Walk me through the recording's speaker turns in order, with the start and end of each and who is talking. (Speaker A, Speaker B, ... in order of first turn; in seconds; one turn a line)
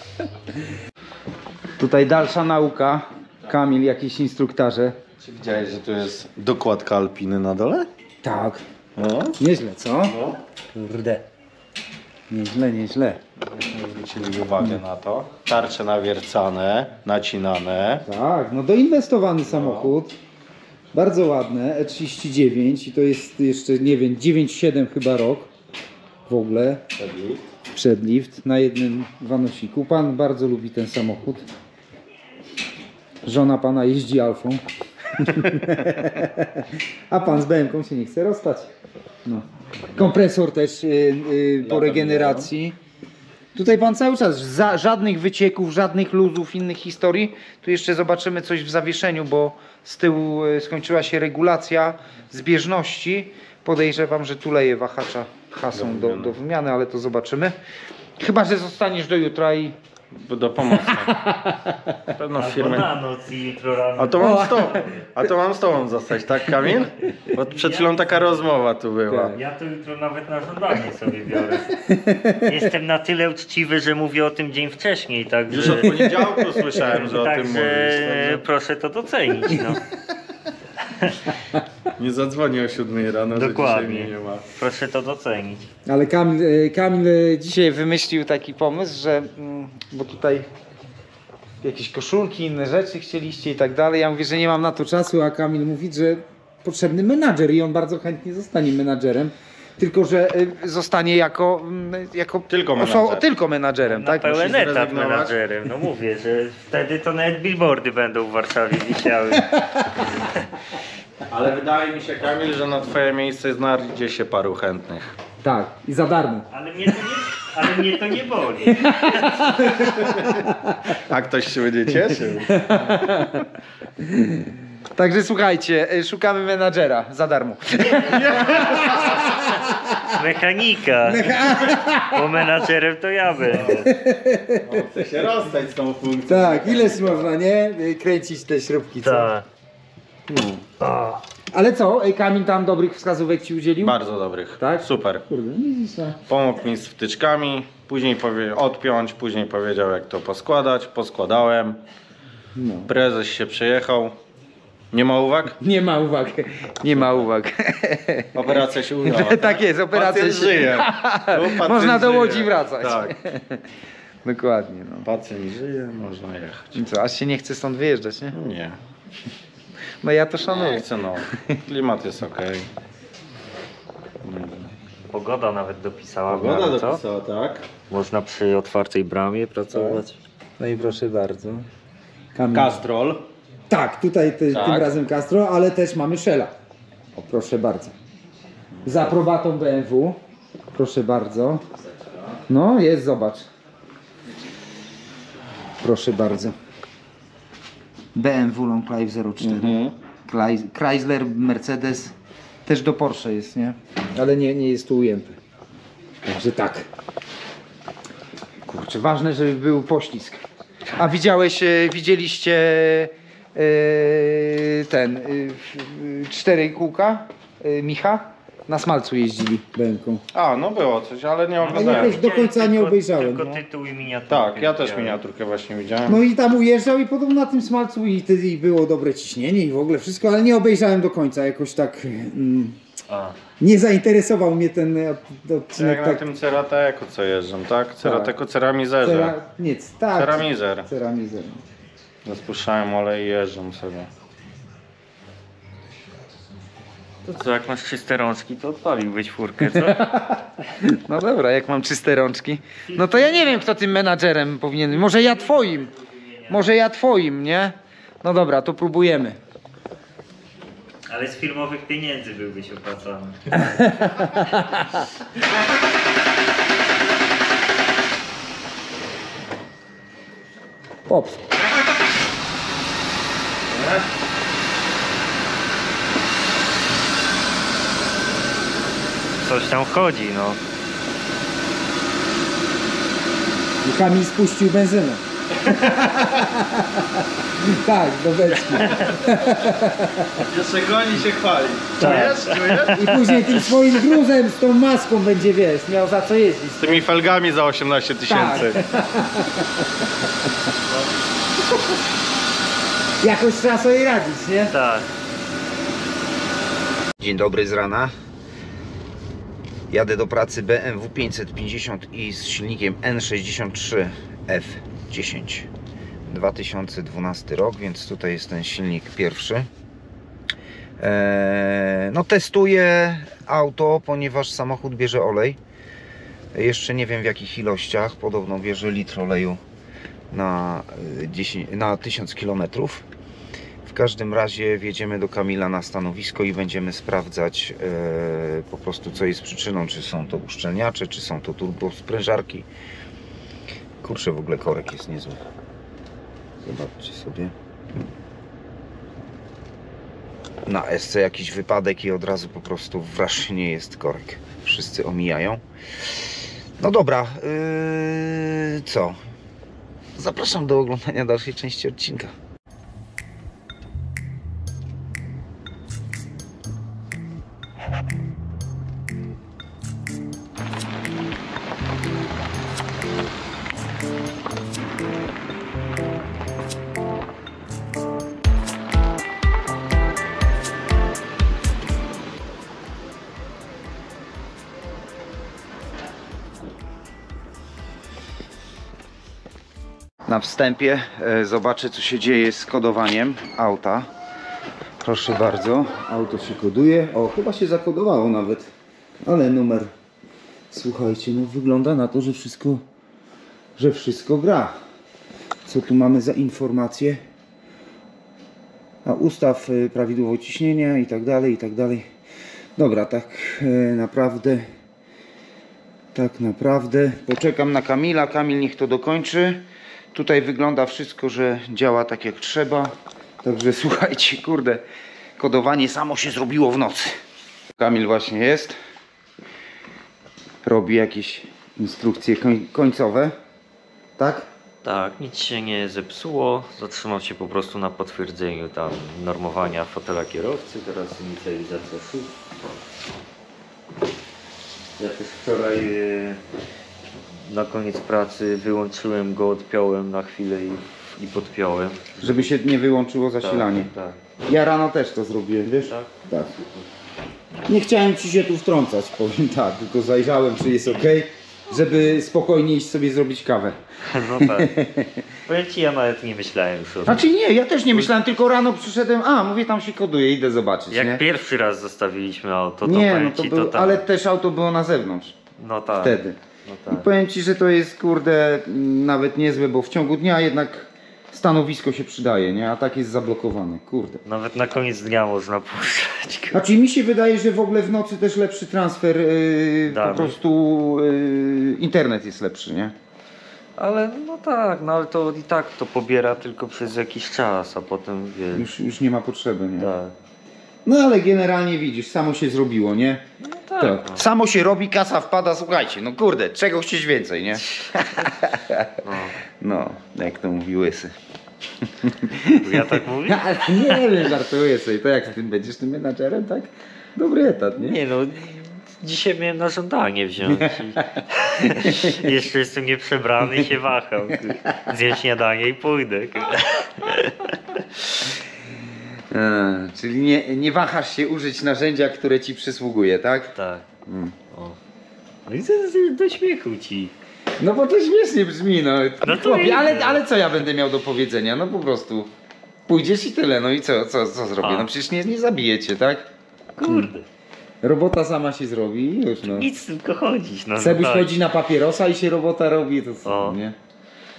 Speaker A: 1.8-5.0
Speaker B: 5.2-7.9
Speaker A: 8.2-8.6
Speaker B: 9.0-9.4
Speaker A: 9.4-10.2
Speaker B: 10.0-10.4
Speaker A: 10.7-11.2
Speaker A: 12.3-13.2
Speaker B: 13.4-18.0
Speaker A: 18.1-20.1
Speaker B: 19.5-19.9
Speaker A: 20.9-25.5
Speaker A: 26.3-26.8
Speaker B: 27.0-27.4
Speaker A: 27.7-31.4
Speaker A: 33.2-38.7
Speaker A: 39.2-42.8
Speaker B: 41.6-42.5
Speaker A: 43.5-57.5
Speaker B: 55.7-56.4
Speaker A: 58.2-59.8
Speaker B: 60.1-61.2
Speaker A: 60.9-62.0
Speaker B: 62.1-62.9
Speaker C: 62.4-65.1
Speaker B: 64.0-69.4
Speaker A: 64.2-64.7
Speaker C: 67.4-68.3
Speaker C: 69.2-76.0
Speaker A: 71.8-72.5
Speaker B: 75.5-78.4
Speaker A: 75.7-76.7
Speaker C: 76.8-79.8
Speaker C: 80.9-81.2
Speaker B: 82.0-84.4
Speaker C: 83.3-85.7
Speaker A: 85.8-90.5
Speaker A: 91.6-104.5
Speaker B: 102.5-103.2
Speaker C: 103.9-109.6
Speaker B: 104.3-105.3
Speaker A: 109.5-109.8
Speaker B: 111.3-115.0
Speaker A: 115.4-116.5
Speaker C: 116.5-119.8
Speaker A: 118.8-120.8
Speaker B: 119.8-120.5
Speaker B: 121.0-122.8
Speaker A: 122.5-130.1
Speaker B: 128.0-129.2
Speaker C: 130.1-133.9
Speaker A: 131.0-132.5
Speaker B: 133.5-133.9
Speaker A: 133.8-134.8
Speaker B: 134.6-137.3
Speaker A: 136.2-139.3
Speaker C: 139.0-139.5
Speaker A: 140.3-144.0
Speaker B: 143.8-145.2
Speaker A: 144.6-146.2
Speaker B: 146.3-151.8
Speaker A: 152.6-152.9
Speaker B: 152.8-154.1
Speaker B: 154.9-155.6
Speaker A: 155.6-163.6
Speaker B: 156.9-157.3
Speaker B: 158.3-163.1
Speaker A: 164.2-165.1
Speaker B: 165.0-166.8
Speaker A: 166.7-168.4
Speaker B: 168.3-168.8
Speaker A: 170.0-171.6
Speaker B: 170.5-172.7
Speaker B: 174.2-174.7
Speaker C: 175.1-177.0
Speaker B: 176.3-177.6
Speaker C: 177.9-180.2
Speaker B: 179.7-180.0
Speaker A: 180.6-181.6
Speaker A: 182.3-182.8
Speaker B: 182.5-183.3
Speaker A: 183.7-186.5
Speaker B: 184.5-185.0
Speaker A: 187.1-187.9
Speaker A: 188.8-190.2
Speaker A: 190.7-191.6
Speaker A: 192.5-193.5
Speaker A: 195.8-196.5
Speaker A: 198.1-202.1
Speaker B: 199.4-199.9
Speaker A: 202.7-205.4
Speaker A: 206.2-206.9
Speaker A: 208.7-220.2
Speaker B: 220.3-222.2
Speaker C: 221.6-225.2
Speaker A: 221.7-223.6
Speaker B: 224.3-226.2
Speaker A: 226.1-232.8
Speaker C: 233.1-233.3
Speaker A: 233.6-236.2
Speaker B: 235.7-239.3
Speaker A: 238.0-238.3
Speaker A: 239.0-241.6
Speaker B: 240.1-240.9
Speaker B: 242.2-244.1
Speaker C: 247.2-250.1
Speaker A: 249.6-255.9
Speaker C: 252.9-253.8
Speaker C: 254.9-256.7
Speaker A: 256.5-259.4
Speaker C: 261.1-263.6
Speaker A: 263.6-265.0
Speaker A: 271.1-271.4
Speaker C: 279.4-280.6
Speaker A: 283.8-290.5
Speaker B: 290.4-293.5
Speaker A: 292.0-297.0
Speaker C: 292.0-292.9
Speaker B: 296.8-298.9
Speaker A: 298.3-300.1
Speaker A: 303.2-304.7
Speaker C: 304.7-305.1
Speaker A: 307.2-308.1
Speaker A: 309.9-315.7
Speaker A: 316.3-319.7
Speaker A: 321.0-325.6
Speaker A: 326.5-329.6
Speaker A: 330.3-333.1
Speaker A: 333.8-342.7
Speaker A: 344.0-345.4
Speaker A: 346.6-347.5
Speaker A: 350.6-359.2
Speaker A: 360.1-362.3
Speaker A: 390.2-394.1
Speaker A: 395.0-398.7
Speaker A: 399.2-399.9
Speaker A: 400.7-402.8
Speaker A: 403.8-404.8
Speaker A: 405.6-407.2
Speaker A: 409.0-412.1
Speaker A: 412.8-414.6
Speaker A: 416.1-424.8
Speaker A: 425.4-427.1
Speaker A: 427.8-428.8
Speaker A: 430.6-433.3
Speaker A: 434.2-434.5
Speaker C: 434.8-442.3
Speaker C: 445.0-446.4
Speaker C: 447.4-452.5
Speaker A: 452.2-453.9
Speaker C: 453.4-454.2
Speaker A: 454.4-456.6
Speaker C: 455.9-456.1
Speaker A: 457.7-463.8
Speaker C: 464.1-464.7
Speaker A: 464.4-465.3
Speaker C: 465.5-467.2
Speaker A: 467.1-471.2
Speaker C: 470.9-474.0
Speaker A: 472.8-475.4
Speaker C: 475.6-477.1
Speaker A: 476.0-476.4
Speaker A: 476.9-484.2
Speaker C: 484.2-486.7
Speaker A: 486.5-492.9
Speaker C: 489.9-490.4
Speaker C: 493.8-498.7
Speaker A: 498.5-499.9
Speaker C: 499.8-500.1
Speaker A: 500.8-503.2
Speaker C: 503.5-504.2
Speaker A: 503.8-509.0
Speaker C: 507.8-508.3
Speaker C: 509.0-509.3
Speaker A: 509.6-511.1
Speaker A: 512.0-518.0
Speaker C: 512.5-514.0
Speaker C: 517.7-527.5
Speaker A: 521.8-522.2
Speaker A: 529.3-533.5
Speaker C: 533.5-533.8
Speaker A: 534.1-534.3
Speaker C: 534.5-534.8
Speaker C: 535.5-537.1
Speaker A: 537.6-542.3
Speaker C: 539.2-540.2
Speaker A: 542.9-546.3
Speaker C: 544.6-544.9
Speaker C: 546.8-547.2
Speaker A: 547.8-549.7
Speaker C: 549.4-551.3
Speaker A: 550.8-553.7
Speaker C: 553.2-553.6